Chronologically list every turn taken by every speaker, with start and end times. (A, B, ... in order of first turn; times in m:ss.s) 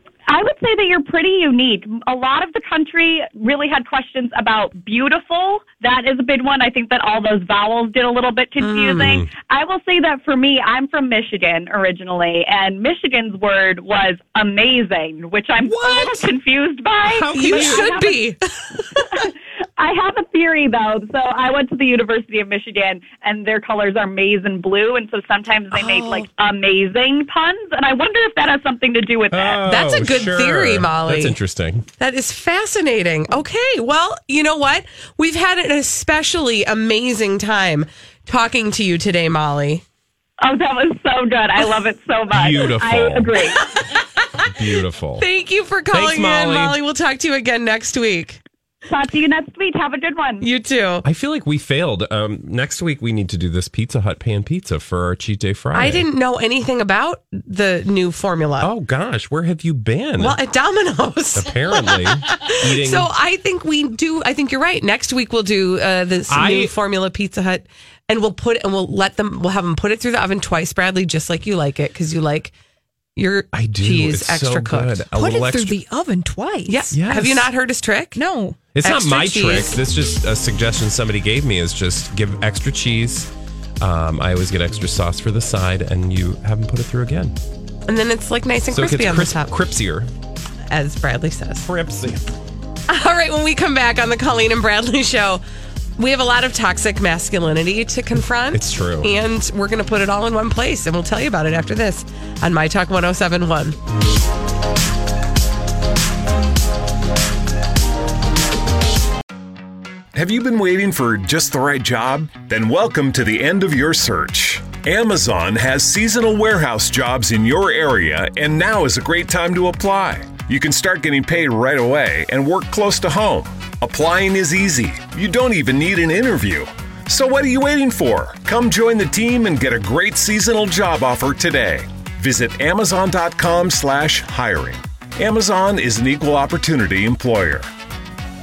0:00.3-0:18.2 A
0:08.6-0:09.2 B
0:09.0-0:09.3 C
0:15.7-0:16.3 B
0:17.1-0:17.9 C
0:17.2-0:19.3 B
0:19.8-0:29.6 A
0:25.7-0:26.3 B
0:29.3-0:31.9 C
0:29.6-0:31.4 B
0:32.0-0:39.8 B
0:40.4-0:43.6 A
0:42.3-0:43.4 C
0:43.8-0:44.0 B
0:44.5-0:45.3 C
0:45.2-0:48.4 B
0:45.9-0:46.8 C
0:48.9-0:50.5 A
0:50.4-0:51.0 B
0:51.0-0:56.1 C
0:55.7-0:58.7 B
0:58.6-1:00.4 C
1:00.2-1:12.5 B
1:01.4-1:03.1 C
1:06.3-1:06.7 C
1:13.2-1:15.0 B
1:13.5-1:15.8 C
1:15.1-1:16.9 D
1:16.7-1:18.2 B
1:16.9-1:17.5 C
1:18.2-1:18.6 D
1:18.7-1:27.4 C
1:18.8-1:19.8 B
1:27.9-1:29.5 B
1:28.7-1:30.1 C
1:30.7-1:31.7 B
1:31.6-1:32.3 C
1:32.9-1:35.4 B
1:36.0-1:43.8 B
1:38.5-1:39.1 C
1:50.1-2:17.7 E